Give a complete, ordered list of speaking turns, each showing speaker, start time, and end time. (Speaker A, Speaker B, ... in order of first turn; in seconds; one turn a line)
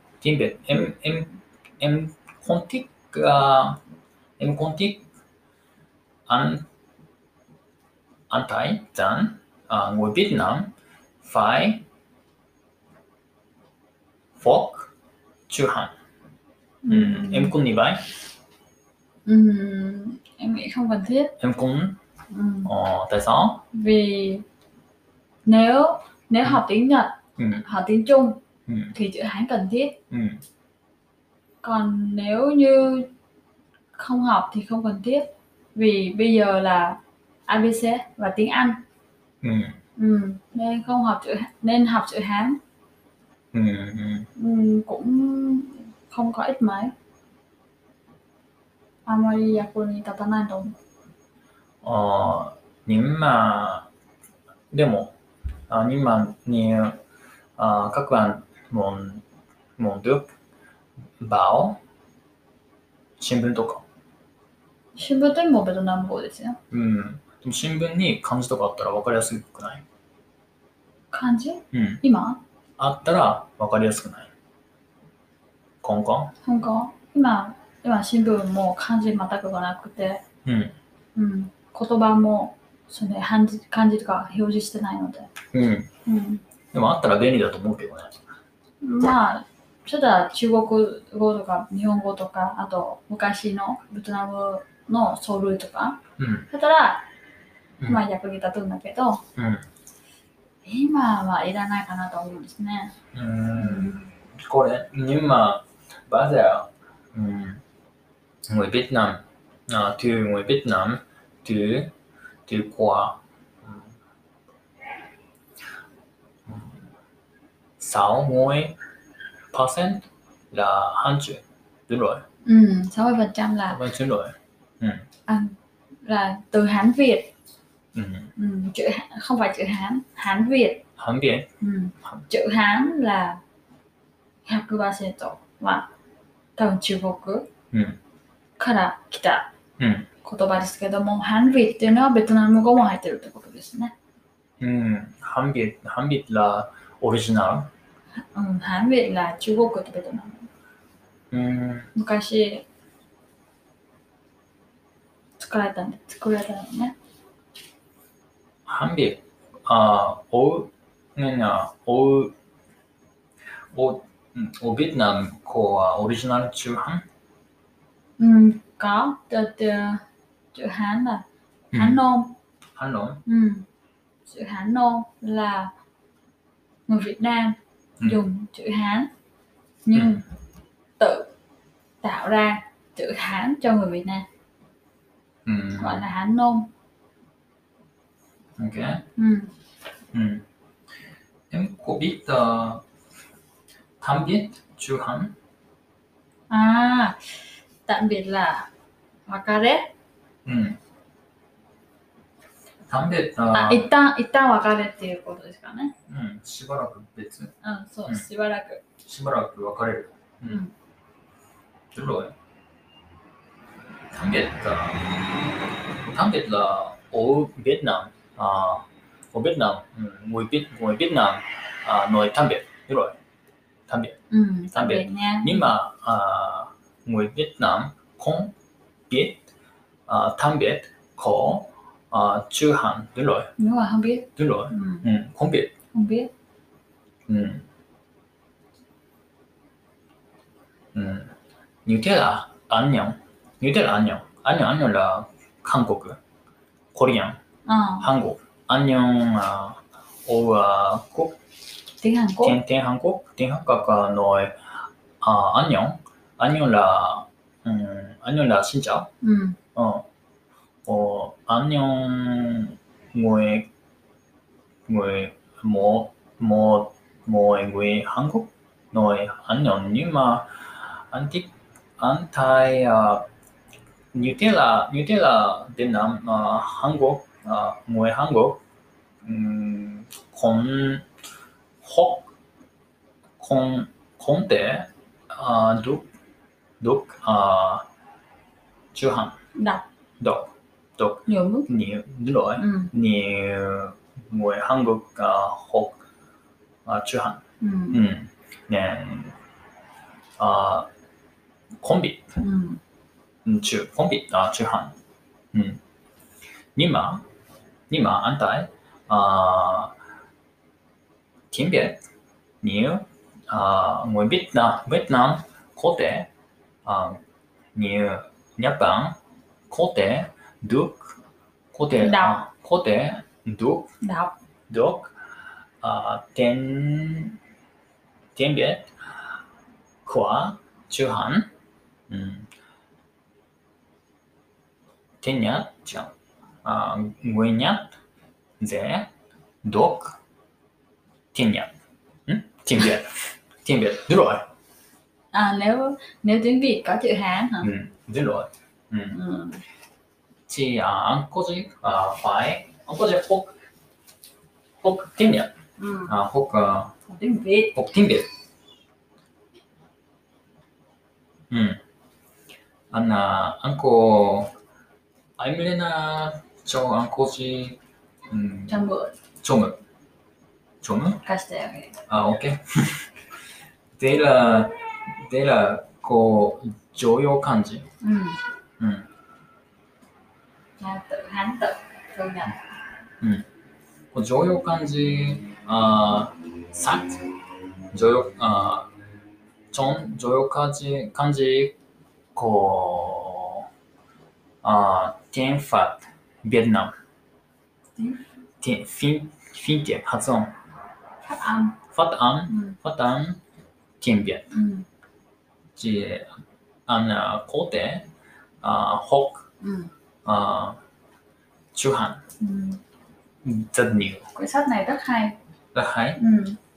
Speaker A: 0.2-3.8
Speaker A: 4.4-5.0
Speaker A: 6.3-6.6
Speaker A: 8.3-11.8
Speaker A: 14.3-14.9
Speaker A: 15.5-15.9
Speaker B: 16.8-17.5
Speaker A: 16.9-18.1
Speaker B: 19.2-21.3
Speaker A: 21.4-22.0
Speaker B: 22.3-22.7
Speaker A: 22.6-23.6
Speaker B: 23.7-24.4
Speaker B: 25.4-28.4
Speaker A: 27.4-27.6
Speaker A: 28.7-28.9
Speaker B: 28.9-29.9
Speaker A: 30.1-30.4
Speaker B: 31.6-33.1
Speaker B: 33.9-38.8
Speaker A: 39.4-39.8
Speaker B: 40.0-42.6
Speaker A: 43.5-44.3
Speaker B: 44.4-46.9
Speaker B: 49.0-50.7
Speaker A: 51.8-53.9
Speaker A: 54.7-55.1
Speaker A: 55.7-57.0
Speaker A: 57.6-59.2
Speaker A: 59.8-60.3
Speaker A: 61.2-61.8
Speaker A: 63.2-63.8
Speaker B: 64.9-66.6
Speaker A: 66.7-69.8
Speaker B: 71.1-72.4
Speaker A: 71.7-72.0
Speaker A: 72.8-74.3
Speaker A: 75.8-76.3
Speaker B: 76.4-80.2
Speaker A: 80.4-80.8
Speaker B: 81.2-85.3
Speaker A: 85.5-85.9
Speaker B: 86.0-86.4
Speaker A: 86.7-88.2
Speaker B: 88.8-97.0
Speaker A: 96.2-96.5
Speaker B: 97.8-99.2
Speaker A: 99.3-99.7
Speaker B: 100.6-102.9
Speaker A: 103.1-107.6
Speaker B: 103.6-104.1
Speaker A: 108.5-111.9
Speaker A: 112.5-113.8
Speaker A: 116.5-116.7
Speaker A: 117.8-118.8
Speaker A: 119.5-122.2
Speaker B: 122.4-123.8
Speaker A: 123.7-125.1
Speaker B: 125.3-127.3
Speaker A: 127.9-128.3
Speaker B: 128.3-130.8
Speaker A: 131.0-131.5
Speaker B: 131.6-133.4
Speaker B: 134.4-135.9
Speaker B: 136.6-137.5
Speaker A: 137.7-138.0
Speaker B: 138.6-139.5
Speaker A: 139.8-140.1
Speaker B: 140.2-143.9
Speaker A: 144.6-147.7
Speaker B: 148.3-150.5
Speaker A: 151.3-151.9
Speaker B: 151.9-152.6
Speaker B: 155.4-156.9
Speaker A: 158.7-162.3
Speaker A: 163.7-167.0
Speaker B: 168.2-170.0
Speaker B: 170.5-172.3
Speaker A: 171.7-172.0
Speaker A: 172.7-173.2
Speaker B: 173.2-173.7
Speaker B: 174.2-175.7
Speaker B: 176.9-179.1
Speaker B: 179.8-180.2
Speaker A: 179.9-180.2
Speaker B: 181.0-181.3
Speaker B: 182.0-184.2
Speaker A: 185.4-186.0
Speaker B: 185.8-186.7
Speaker A: 188.6-189.0
Speaker B: 189.2-189.5
Speaker A: 190.1-190.4
Speaker A: 191.5-192.8
Speaker A: 194.0-195.3
Speaker B: 196.5-198.7
Speaker B: 199.3-199.9
Speaker A: 200.4-200.8
Speaker A: 202.9-203.9
Speaker B: 203.5-205.9
Speaker A: 206.1-207.5
Speaker B: 207.6-208.8
Speaker A: 209.0-210.6
Speaker B: 210.4-210.7
Speaker A: 211.9-212.3
Speaker A: 214.1-215.3
Speaker A: 216.0-223.1
Speaker A: 223.9-224.2
Speaker B: 224.3-225.6
Speaker A: 224.7-228.5
Speaker A: 229.1-229.4
Speaker A: 230.1-233.5
Speaker B: 233.6-235.1
Speaker A: 234.4-235.7
Speaker B: 235.9-236.3
Speaker A: 237.3-237.6
Speaker A: 240.9-241.3
Speaker A: 241.8-246.2
Speaker A: 246.9-247.4
Speaker B: 247.7-248.1
Speaker A: 248.0-251.4
Speaker B: 252.0-252.6
Speaker A: 252.4-254.6
Speaker A: 255.2-259.1
Speaker B: 259.2-259.6
Speaker A: 259.7-260.0
Speaker A: 260.8-263.7
Speaker A: 264.9-273.3
Speaker A: 274.1-278.6
Speaker A: 279.2-281.1
Speaker A: 281.8-282.3
Speaker A: 283.4-286.1
Speaker A: 286.8-287.9
Speaker A: 288.9-289.4
Speaker B: 289.5-289.8
Speaker A: 290.2-296.0
Speaker B: 291.3-291.7
Speaker B: 292.6-292.9
Speaker A: 296.8-297.4
Speaker B: 297.6-298.0
Speaker A: 297.9-299.4
Speaker A: 300.4-300.9
Speaker A: 301.8-302.2
Speaker B: 302.4-302.8
Speaker A: 303.4-304.9
Speaker A: 305.5-305.8
Speaker A: 306.7-307.2
Speaker A: 307.9-309.9
Speaker A: 311.5-312.0
Speaker A: 312.6-316.3
Speaker A: 316.8-317.2
Speaker A: 317.7-319.2
Speaker A: 319.7-321.2
Speaker A: 321.7-323.9
Speaker B: 322.0-322.4
Speaker B: 324.0-324.3
Speaker A: 324.7-325.1
Speaker A: 325.8-327.4
Speaker A: 328.4-328.9
Speaker A: 330.0-331.5
Speaker A: 332.1-332.5
Speaker A: 335.2-336.1
Speaker A: 336.6-337.9
Speaker A: 338.6-339.1
Speaker A: 339.6-340.2
Speaker A: 341.3-341.7
Speaker A: 342.2-344.5
Speaker B: 345.3-347.7
Speaker A: 347.6-349.2
Speaker B: 349.1-349.6
Speaker A: 350.5-353.5
Speaker A: 354.8-355.5
Speaker B: 355.8-356.2
Speaker A: 356.1-356.9
Speaker B: 357.1-357.8
Speaker A: 357.7-358.3
Speaker A: 361.5-361.8
Speaker A: 362.9-364.5
Speaker A: 365.4-367.8
Speaker A: 368.3-368.8
Speaker B: 368.7-369.1
Speaker A: 369.4-369.8
Speaker A: 370.8-371.2
Speaker B: 371.2-372.0
Speaker A: 372.1-373.1
Speaker A: 374.0-377.9
Speaker B: 378.0-378.4
Speaker A: 378.8-379.1
Speaker B: 380.8-382.6
Speaker A: 384.1-387.2
Speaker A: 387.9-388.9
Speaker A: 389.7-391.8
Speaker A: 392.3-393.6
Speaker A: 394.6-396.9
Speaker B: 398.0-398.2
Speaker A: 398.6-400.5
Speaker B: 401.2-401.8
Speaker A: 401.9-403.4
Speaker B: 402.5-402.7
Speaker A: 404.0-404.5
Speaker B: 404.5-404.9
Speaker A: 405.7-408.1
Speaker A: 408.6-409.4
Speaker B: 409.6-409.9
Speaker A: 410.2-410.8
Speaker A: 411.7-412.2
Speaker B: 412.4-412.8
Speaker A: 413.4-414.3
Speaker B: 414.3-415.4
Speaker A: 415.7-416.2
Speaker B: 416.2-416.6